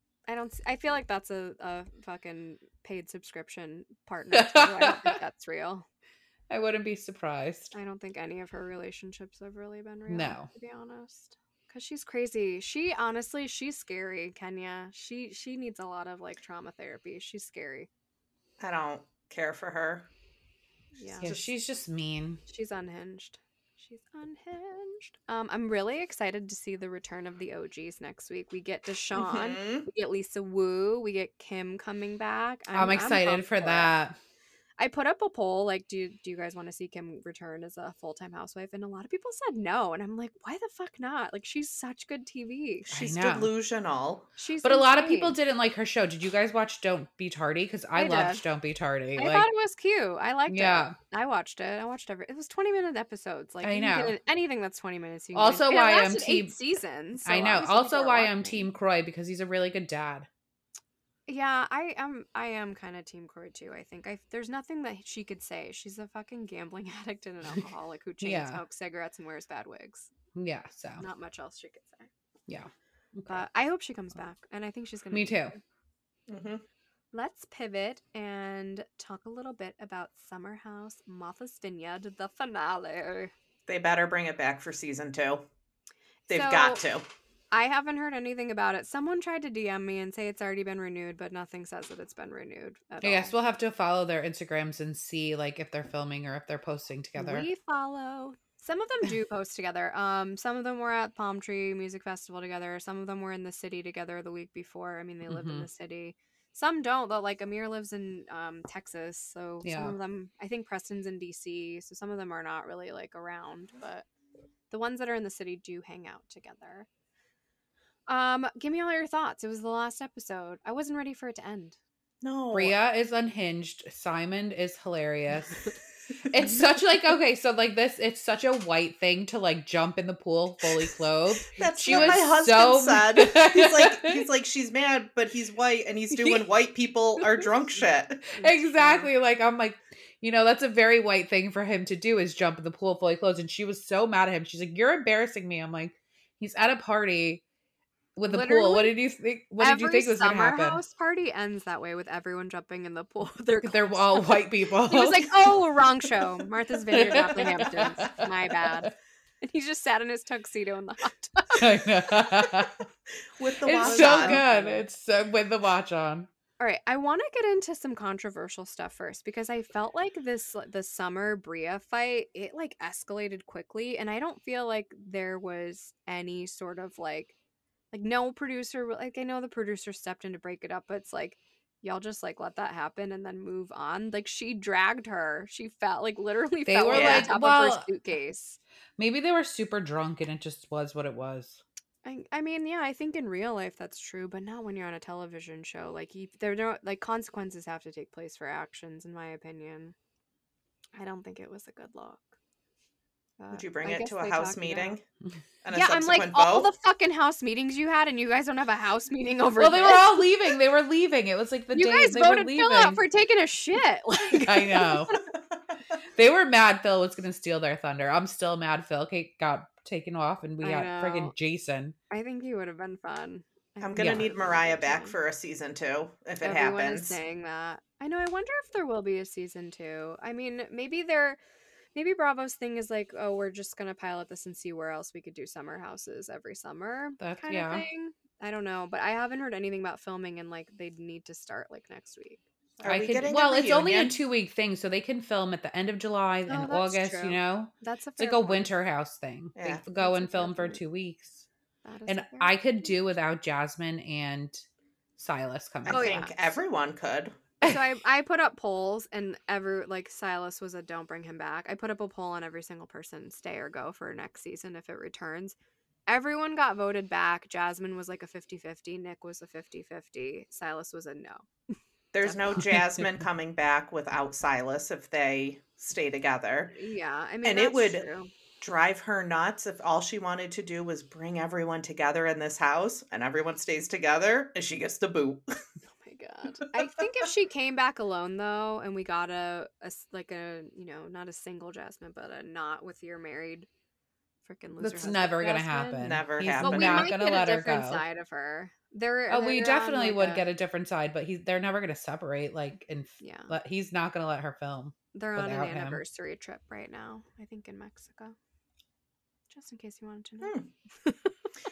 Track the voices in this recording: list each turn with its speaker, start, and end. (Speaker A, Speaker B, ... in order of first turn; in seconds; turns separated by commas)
Speaker A: 0.3-5.9, Speaker B: 4.3-5.2, Speaker B: 6.5-7.7, Speaker A: 7.7-17.9, Speaker B: 10.1-10.5, Speaker C: 18.6-20.1, Speaker A: 20.9-21.3, Speaker C: 21.2-21.5, Speaker B: 21.2-22.4, Speaker A: 22.5-33.9, Speaker C: 29.1-29.9, Speaker B: 32.7-34.2, Speaker A: 34.8-42.9, Speaker C: 42.9-44.3, Speaker B: 42.9-43.5, Speaker A: 44.4-45.4, Speaker B: 44.6-49.5, Speaker A: 48.0-48.4, Speaker A: 49.2-58.7, Speaker B: 50.5-51.0, Speaker B: 53.6-54.2, Speaker B: 55.3-56.6, Speaker B: 57.2-60.3, Speaker A: 61.3-70.1, Speaker B: 68.2-68.6, Speaker B: 70.3-71.0, Speaker A: 71.0-72.1, Speaker B: 72.5-73.5, Speaker A: 73.3-75.6, Speaker B: 75.1-75.5, Speaker C: 76.3-76.6, Speaker A: 77.1-83.3, Speaker C: 83.7-85.5, Speaker A: 86.3-86.8, Speaker C: 86.3-87.0, Speaker A: 87.5-93.3, Speaker B: 93.0-97.5, Speaker A: 97.2-114.1, Speaker B: 105.3-105.7, Speaker B: 109.6-110.0, Speaker A: 114.7-116.9, Speaker A: 118.1-121.8, Speaker C: 122.2-122.8, Speaker B: 122.5-125.7, Speaker B: 126.3-134.2, Speaker C: 131.6-138.3, Speaker A: 131.6-132.3, Speaker A: 138.3-139.1, Speaker B: 138.4-147.4, Speaker B: 148.2-150.8, Speaker A: 148.3-148.9, Speaker A: 149.6-161.8, Speaker B: 153.6-155.6, Speaker B: 156.9-158.9, Speaker B: 161.5-162.8, Speaker C: 163.4-164.4, Speaker B: 163.7-166.3, Speaker A: 163.7-164.8, Speaker A: 166.6-177.3, Speaker A: 177.9-188.6, Speaker B: 186.7-187.9, Speaker C: 186.9-187.3, Speaker B: 189.0-191.6, Speaker A: 192.1-199.9, Speaker A: 201.0-202.4, Speaker A: 203.4-205.0, Speaker C: 203.5-205.0, Speaker C: 205.6-206.7, Speaker A: 205.7-210.3, Speaker B: 209.6-213.0, Speaker A: 211.7-215.3, Speaker B: 214.4-215.2, Speaker B: 216.2-222.0, Speaker A: 220.6-221.3, Speaker A: 222.1-225.2, Speaker C: 223.8-227.2, Speaker B: 224.0-224.3, Speaker A: 226.4-231.4, Speaker A: 231.9-243.1, Speaker B: 237.2-237.9, Speaker C: 242.8-244.2, Speaker B: 242.9-251.5, Speaker A: 246.5-248.7, Speaker C: 249.6-249.8, Speaker A: 249.9-250.8, Speaker A: 251.8-252.9, Speaker B: 252.1-254.7, Speaker B: 255.2-256.2, Speaker C: 255.9-257.4, Speaker A: 255.9-256.6, Speaker A: 257.6-265.6, Speaker A: 266.1-271.5, Speaker C: 272.1-276.8, Speaker A: 272.2-272.8, Speaker B: 272.7-273.0, Speaker A: 276.7-278.3, Speaker C: 277.4-278.1, Speaker C: 278.6-285.4, Speaker A: 286.0-293.7, Speaker A: 294.4-300.5, Speaker B: 294.8-298.0, Speaker C: 296.0-297.2, Speaker B: 299.3-306.0, Speaker A: 303.2-303.6, Speaker A: 305.1-308.4, Speaker A: 309.5-311.3, Speaker C: 310.4-310.7